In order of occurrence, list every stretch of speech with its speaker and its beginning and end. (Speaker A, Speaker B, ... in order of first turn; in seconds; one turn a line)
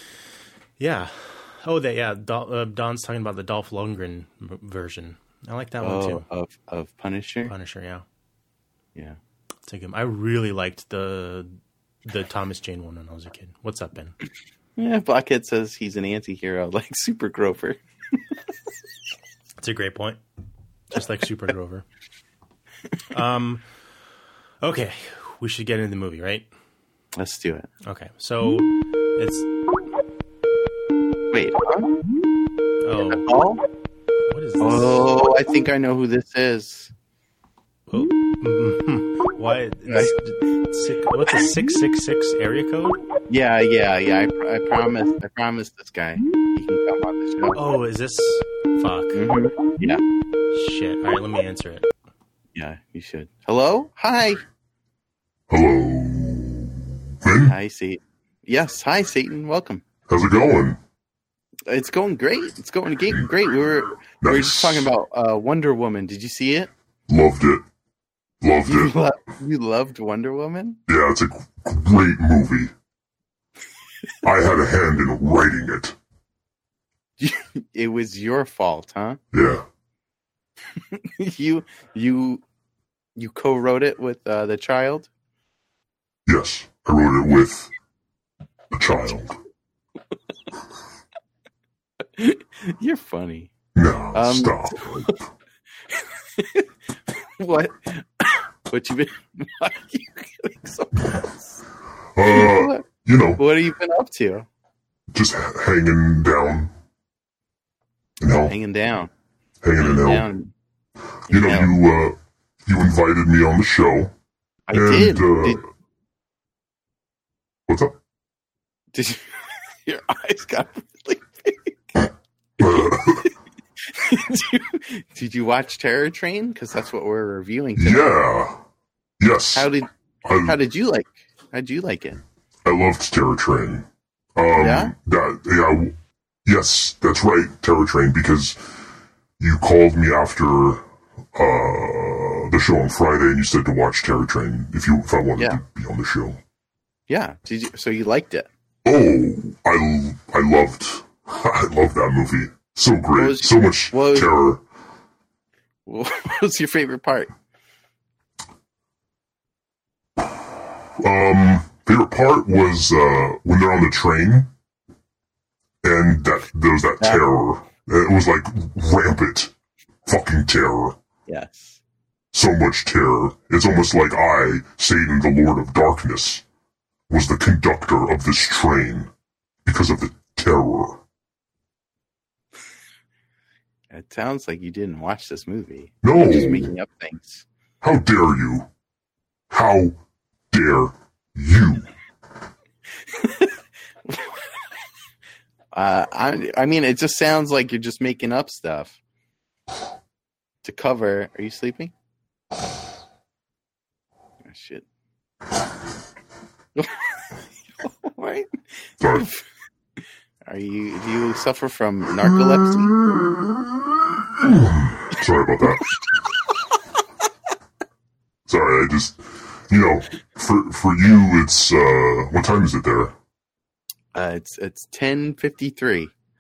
Speaker A: 0.8-6.3
Speaker B: 5.8-7.5
Speaker A: 7.5-8.1
Speaker A: 9.7-14.2
Speaker B: 14.8-18.2
Speaker A: 19.6-20.2
Speaker A: 20.9-21.9
Speaker A: 23.1-23.6
Speaker A: 24.6-26.5
Speaker B: 27.2-27.7
Speaker A: 27.8-29.5
Speaker B: 31.3-32.0
Speaker A: 32.8-33.3
Speaker B: 33.1-33.6
Speaker A: 34.3-35.1
Speaker B: 34.6-36.9
Speaker A: 37.9-43.0
Speaker B: 39.9-40.1
Speaker B: 43.3-47.6
Speaker A: 47.5-49.2
Speaker B: 49.1-50.0
Speaker A: 50.5-51.9
Speaker B: 52.5-54.4
Speaker C: 55.5-57.5
Speaker B: 57.5-59.9
Speaker C: 60.1-60.8
Speaker B: 61.7-66.7
Speaker C: 64.0-64.9
Speaker C: 67.1-67.6
Speaker C: 68.4-68.9
Speaker B: 68.7-70.8
Speaker C: 70.9-72.7
Speaker C: 74.2-76.0
Speaker B: 77.2-79.2
Speaker C: 79.3-79.7
Speaker B: 80.9-82.4
Speaker B: 83.2-85.1
Speaker C: 86.3-87.7
Speaker C: 88.7-89.3
Speaker B: 92.2-93.5
Speaker C: 93.8-95.3
Speaker B: 94.1-94.8
Speaker B: 96.4-96.7
Speaker B: 97.4-101.5
Speaker C: 102.2-103.4
Speaker B: 102.3-104.5
Speaker C: 105.1-106.7
Speaker C: 108.2-108.5
Speaker B: 108.4-109.1
Speaker C: 109.6-110.3
Speaker B: 109.8-110.5
Speaker C: 111.3-114.1
Speaker B: 111.3-111.7
Speaker B: 114.7-115.6
Speaker C: 114.7-115.7
Speaker C: 117.7-118.0
Speaker B: 118.9-121.8
Speaker C: 122.6-123.3
Speaker B: 124.0-128.2
Speaker C: 127.8-128.6
Speaker C: 129.2-129.7
Speaker B: 129.6-129.9
Speaker C: 130.2-130.6
Speaker B: 130.4-132.2
Speaker C: 132.7-135.9
Speaker B: 134.6-134.9
Speaker C: 136.5-138.8
Speaker C: 139.4-140.8
Speaker C: 141.3-146.4
Speaker B: 147.1-148.5
Speaker C: 148.8-154.6
Speaker B: 153.2-154.3
Speaker B: 155.9-157.3
Speaker C: 161.0-164.5
Speaker C: 165.8-169.5
Speaker C: 170.1-171.0
Speaker B: 171.3-171.8
Speaker C: 172.3-176.4
Speaker C: 177.1-179.1
Speaker C: 179.7-181.0
Speaker B: 183.9-187.4
Speaker C: 186.0-186.7
Speaker C: 187.8-188.7
Speaker C: 189.5-190.0
Speaker C: 190.5-191.9
Speaker B: 193.2-193.5
Speaker B: 194.1-194.4
Speaker B: 195.7-199.0
Speaker B: 200.6-201.9
Speaker B: 204.4-204.8
Speaker B: 207.8-208.5
Speaker C: 209.0-209.3
Speaker B: 209.1-209.4
Speaker B: 210.5-212.9
Speaker C: 212.3-213.3
Speaker C: 214.4-215.9
Speaker C: 218.5-223.2
Speaker B: 224.1-226.1